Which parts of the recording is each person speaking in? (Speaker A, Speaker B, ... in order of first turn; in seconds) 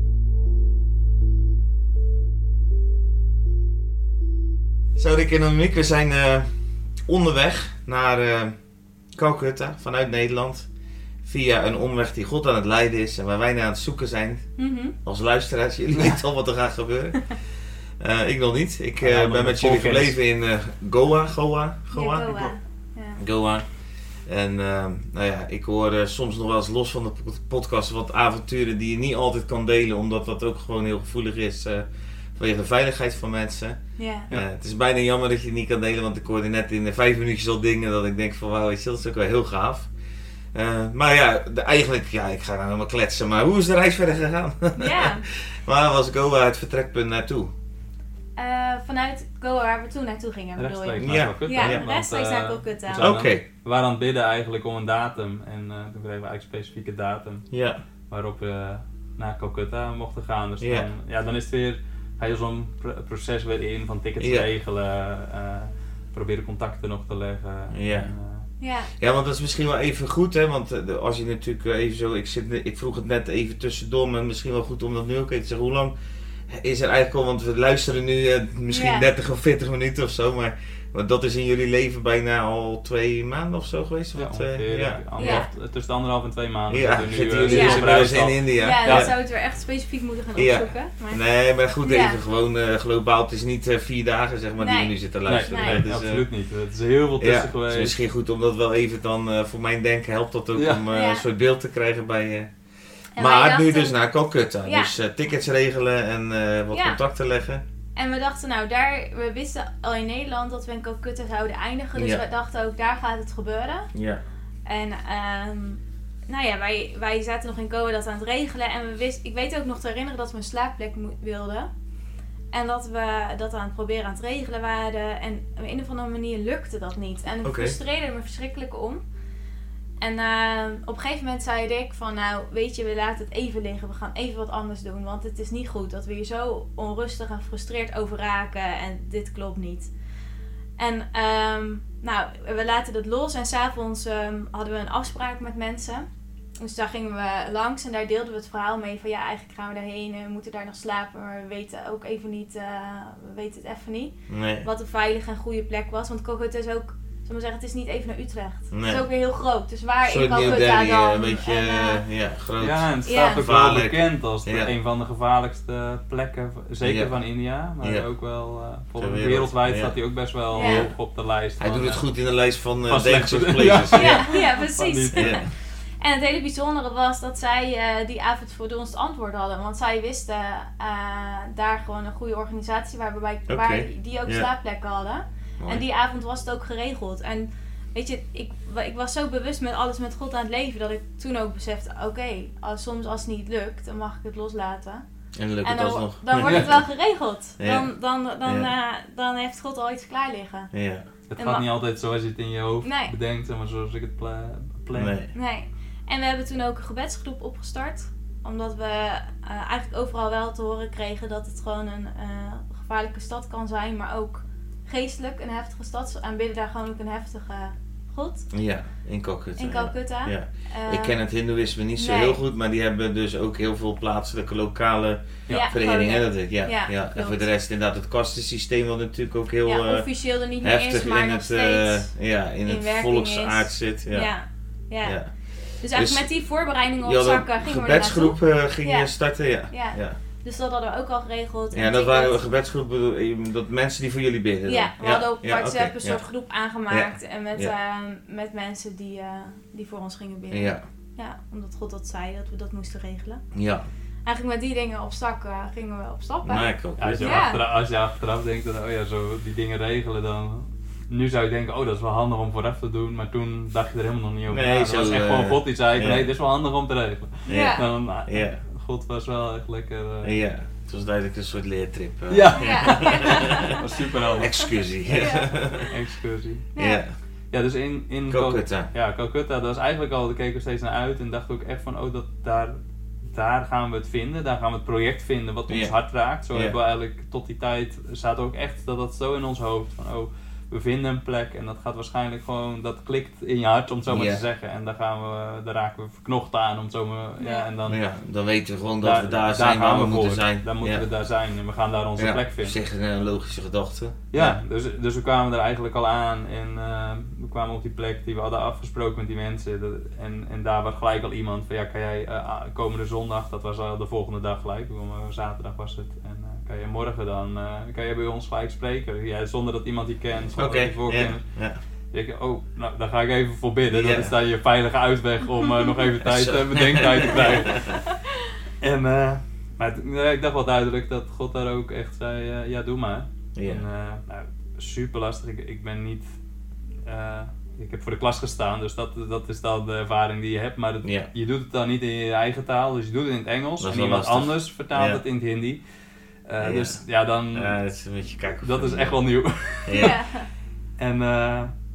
Speaker A: 5.0-6.5, 7.1-8.6, 9.1-10.7, 11.2-14.4, 15.0-17.3, 18.0-22.5, 23.2-23.6, 24.3-31.9, 32.4-33.8, 34.3-39.9, 40.5-45.1, 45.6-47.5, 51.0-51.8, 53.0-53.4, 57.5-57.8, 60.6-60.9, 64.2-64.5, 67.7-68.1, 69.0-75.9, 76.5-85.4, 86.7-89.1, 90.3-96.2, 97.2-102.5, 103.2-107.6, 112.0-112.2, 113.9-114.2, 127.4-127.8, 154.3-154.7, 158.7-159.1, 160.0-164.7, 166.8-167.1, 167.8-168.1, 169.0-169.9, 170.5-170.9, 171.6-174.3, 175.1-175.4, 183.5-184.5, 185.6-185.8, 195.3-196.8, 197.6-197.9, 198.4-198.7, 200.7-201.0, 204.9-205.3, 218.5-230.1, 230.6-234.3, 235.0-235.3, 235.9-236.3, 237.0-240.2, 241.7-246.2, 246.9-247.7, 250.5-250.8, 253.5-253.8, 256.4-257.4, 264.5-266.3, 267.5-268.6, 270.2-273.8, 274.4-275.8, 276.8-277.1, 278.3-278.9, 285.7-285.9, 294.1-294.4, 297.9-301.1, 302.2-304.6, 320.6-321.8, 323.9-324.3, 326.2-328.0, 333.6-333.8, 341.0-341.3, 343.8-345.2, 346.6-347.0, 347.5-349.2, 349.9-350.1
Speaker B: 14.6-14.9, 21.9-23.2, 34.0-34.3, 44.8-45.2, 48.4-53.1, 68.6-68.9, 78.7-79.1, 85.2-85.5, 87.4-88.0, 88.6-91.2, 91.8-92.2, 94.6-94.9, 95.4-95.8, 100.9-101.2, 103.2-104.0, 104.6-104.9, 106.7-107.0, 108.0-113.9, 114.7-121.7, 122.5-129.0, 130.0-139.9, 140.8-146.1, 146.6-162.0, 163.0-163.5, 170.5-170.9, 173.9-175.4, 176.0-195.0, 195.6-200.7, 201.4-201.7, 202.8-203.1, 205.3-218.4, 219.6-221.2, 222.0-222.4, 225.5-227.5, 229.6-232.1, 232.6-235.2, 235.8-239.1, 239.7-242.4, 244.7-253.4, 254.2-257.6, 267.5-267.8, 272.5-273.8, 275.1-276.0, 276.7-277.0, 297.4-297.7, 350.0-350.4
Speaker C: 19.0-20.2, 50.6-57.4, 58.1-68.4, 84.1-89.1, 95.3-98.0, 100.5-100.8, 162.6-172.1, 172.8-175.5, 196.4-196.8, 201.3-205.2, 257.0-270.4, 272.3-274.6, 275.9-276.7, 277.5-282.8, 283.3-298.0, 299.0-302.8, 304.3-321.4, 322.1-328.0, 328.8-336.3, 337.1-345.8, 346.5-347.8, 348.6-350.1, 351.0-351.7